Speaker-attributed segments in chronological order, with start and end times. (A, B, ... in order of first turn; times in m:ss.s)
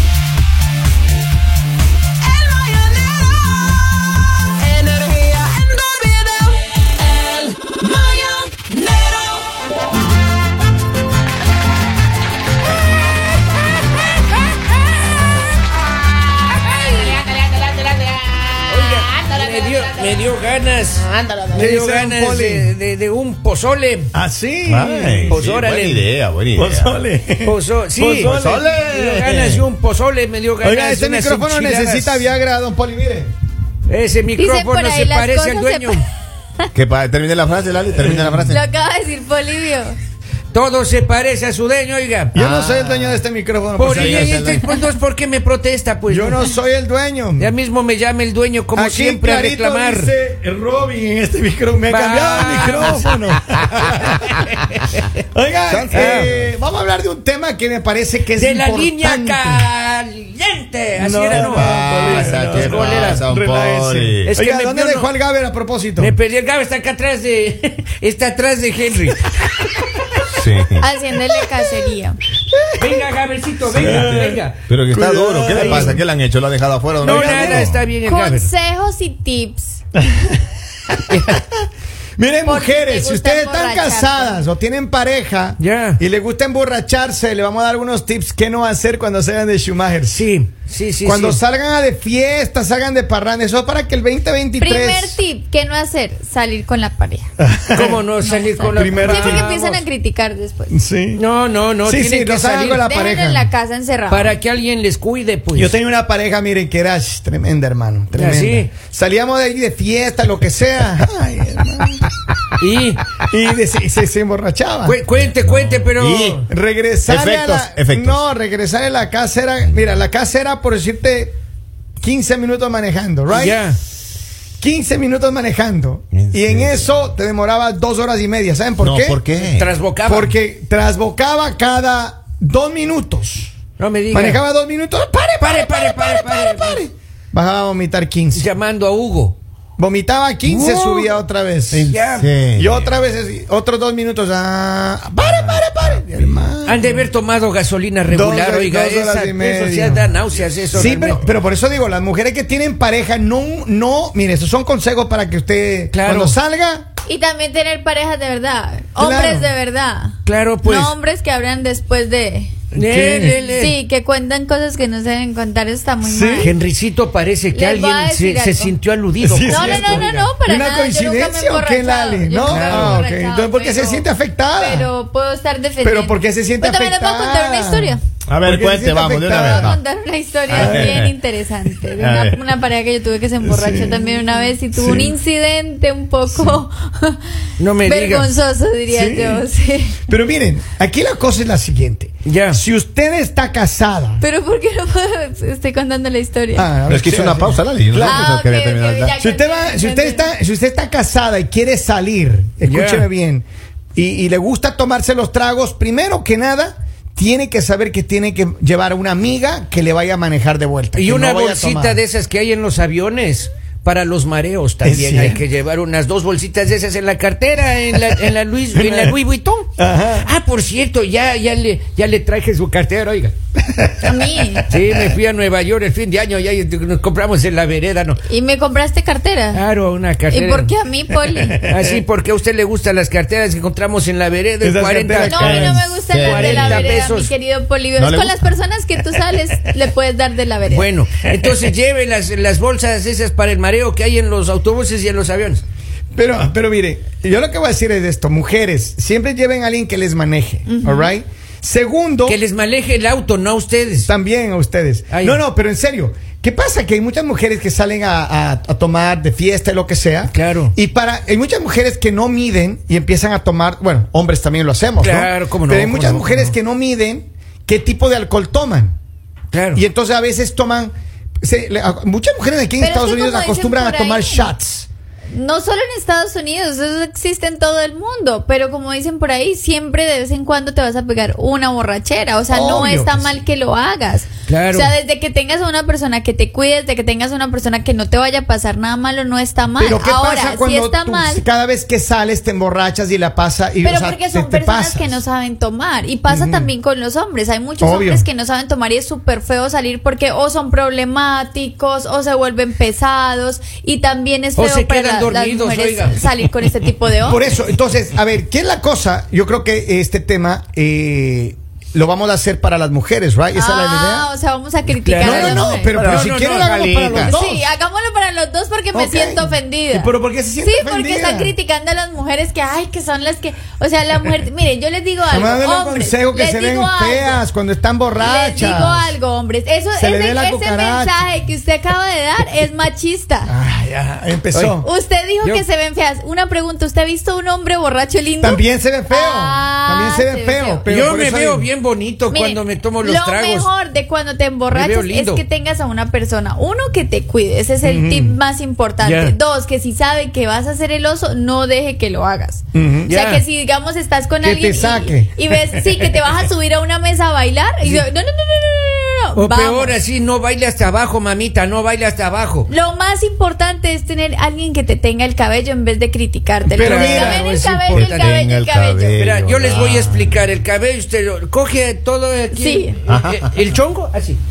0:02.4-0:03.1 A
0:04.7-0:06.5 A
0:07.3-0:08.7 A
0:18.7-0:24.1 A
0:21.5-0:22.7 B
0:24.1-0:25.4 B
0:24.6-0:27.0 C
0:25.3-0:26.1 A
0:26.5-0:28.7 B
0:27.4-0:32.2 A
0:28.2-0:29.7 C
0:30.6-0:33.3 B
0:33.9-0:36.0 A
0:34.4-0:36.0 D
0:36.7-0:38.6 C
0:38.0-0:38.6 B
0:38.5-0:40.0 D
0:40.5-0:42.3 A
0:42.3-0:44.7 B
0:42.3-0:43.2 C
0:43.8-0:46.5 A
0:43.8-0:44.6 C
0:46.1-0:47.5 B
0:47.4-0:50.1 A
0:48.7-0:54.4 B
0:51.9-0:53.4 A
0:54.1-0:54.8 A
0:55.3-0:59.7 B
0:55.7-0:56.3 C
0:55.9-0:56.3 A
0:58.3-1:03.2 A
1:01.0-1:06.2 B
1:01.3-1:04.3 C
1:04.2-1:05.1 A
1:06.0-1:09.6 A
1:10.3-1:10.8 C
1:10.8-1:12.2 D
1:12.5-1:12.9 B
1:12.8-1:14.6 A
1:13.7-1:16.0 B
1:13.8-1:17.9 C
1:15.5-1:16.0 A
1:17.0-1:18.5 A
1:17.0-1:17.7 B
1:18.0-1:19.8 D
1:20.0-1:20.4 B
1:21.1-1:21.4 A
1:22.2-1:30.2 B
1:22.4-1:24.4 D
1:25.6-1:26.0 A
1:30.1-1:31.4 A
1:31.0-1:35.2 B
1:34.6-1:37.3 D
1:37.4-1:38.0 B
1:37.7-1:39.8 A
1:38.2-1:40.7 D
1:38.7-1:39.8 B
1:40.7-1:41.2 B
1:41.1-1:42.8 A
1:41.8-1:43.5 B
1:42.8-1:44.3 D
1:44.1-1:45.7 A
1:45.5-1:52.0 B
1:48.1-1:48.7 A
1:52.6-1:53.0 A
1:53.2-1:55.0 B
1:54.8-1:56.4 A
1:55.2-1:56.4 C
1:56.5-2:01.4 B
1:57.1-1:58.2 C
2:02.0-2:03.6 B
2:03.3-2:03.8 A
2:04.6-2:09.2 B
2:06.1-2:07.0 C
2:08.8-2:09.7 C
2:09.4-2:10.3 A
2:10.0-2:13.5 B
2:13.8-2:14.4 A
2:14.1-2:18.5 B
2:15.4-2:16.8 A
2:18.3-2:19.4 A
2:19.8-2:21.9 B
2:20.4-2:21.2 A
2:21.7-2:22.3 A
2:21.7-2:23.0 C
2:22.5-2:27.1 B
2:25.2-2:26.4 C
2:26.6-2:31.2 A
2:28.1-2:30.2 B
2:30.7-2:36.8 B
2:30.8-2:31.1 C
2:35.9-2:36.4 A
2:37.0-2:42.5 D
2:39.0-2:39.5 B
2:40.2-2:40.9 A
2:42.7-2:43.4 B
2:42.7-2:43.8 A
2:43.2-2:46.5 D
2:46.0-2:46.5 B
2:46.4-2:50.3 A
2:47.5-2:48.7 D
2:49.2-2:54.9 B
2:49.5-2:58.0 D
2:52.4-2:53.1 A
2:55.8-2:59.8 B
2:58.3-2:59.8 C
2:59.4-3:07.2 D
3:00.5-3:01.1 C
3:00.5-3:01.0 B
3:02.0-3:02.4 C
3:03.4-3:04.1 B
3:04.7-3:05.1 B
3:06.3-3:06.6 B
3:07.6-3:08.3 A
3:07.8-3:10.0 D
3:08.9-3:09.5 B
3:10.0-3:14.2 B
3:12.2-3:12.6 A
3:14.2-3:16.7 D
3:16.5-3:18.4 B
3:16.9-3:19.1 C
3:18.0-3:20.3 D
3:19.2-3:32.0 B
3:22.6-3:23.1 A
3:30.9-3:43.3 A
3:34.8-3:35.4 B
3:39.8-3:40.3 B
3:43.7-3:45.1 B
3:44.0-3:44.6 D
3:44.7-3:48.2 A
3:48.2-3:49.6 D
3:49.5-3:50.7 A
3:50.3-3:51.6 D
3:51.2-3:52.0 B
3:51.6-3:55.5 A
3:54.6-3:55.9 B
3:55.2-4:00.9 D
3:55.4-3:56.9 C
3:56.1-3:57.3 A
3:58.0-3:58.5 C
4:00.6-4:05.6 A
4:01.3-4:01.5 B
4:06.1-4:12.4 B
4:10.7-4:11.1 D
4:12.2-4:14.1 A
4:14.0-4:28.9 B
4:15.1-4:15.4 A
4:20.3-4:20.7 A
4:25.0-4:26.5 A
4:29.5-4:29.8 A
4:29.7-4:34.9 B
4:32.8-4:34.5 D
4:35.3-4:51.4 D
4:42.5-4:43.4 B
4:44.5-4:44.9 A
4:49.8-4:55.2 B
4:53.8-5:07.4 D
4:56.3-4:56.7 B
4:57.8-4:58.3 B
5:04.6-5:06.2 A
5:07.2-5:14.3 B
5:13.5-5:15.9 D
5:15.0-5:16.8 A
5:15.2-5:17.6 B
5:15.9-5:17.3 C
5:17.1-5:20.1 D
5:18.9-5:21.5 B
5:20.6-5:27.4 D
5:25.3-5:29.2 B
5:28.2-5:33.5 D
5:30.0-5:31.2 B
5:33.5-5:34.9 B
5:34.5-5:34.8 A
5:34.8-5:40.8 D
5:38.4-5:41.7 B
5:40.9-5:43.7 A
5:42.3-6:00.0 D
5:44.7-5:45.4 A
5:47.8-5:48.4 B
5:49.0-5:49.3 A
5:52.7-5:53.1 B
5:53.1-5:53.4 A
5:54.4-5:56.3 B
5:59.4-6:02.7 A
6:02.7-6:09.2 D
6:06.7-6:07.4 B
6:06.8-6:08.4 A
6:07.9-6:10.4 C
6:09.2-6:14.4 A
6:12.5-6:13.0 D
6:13.1-6:13.5 C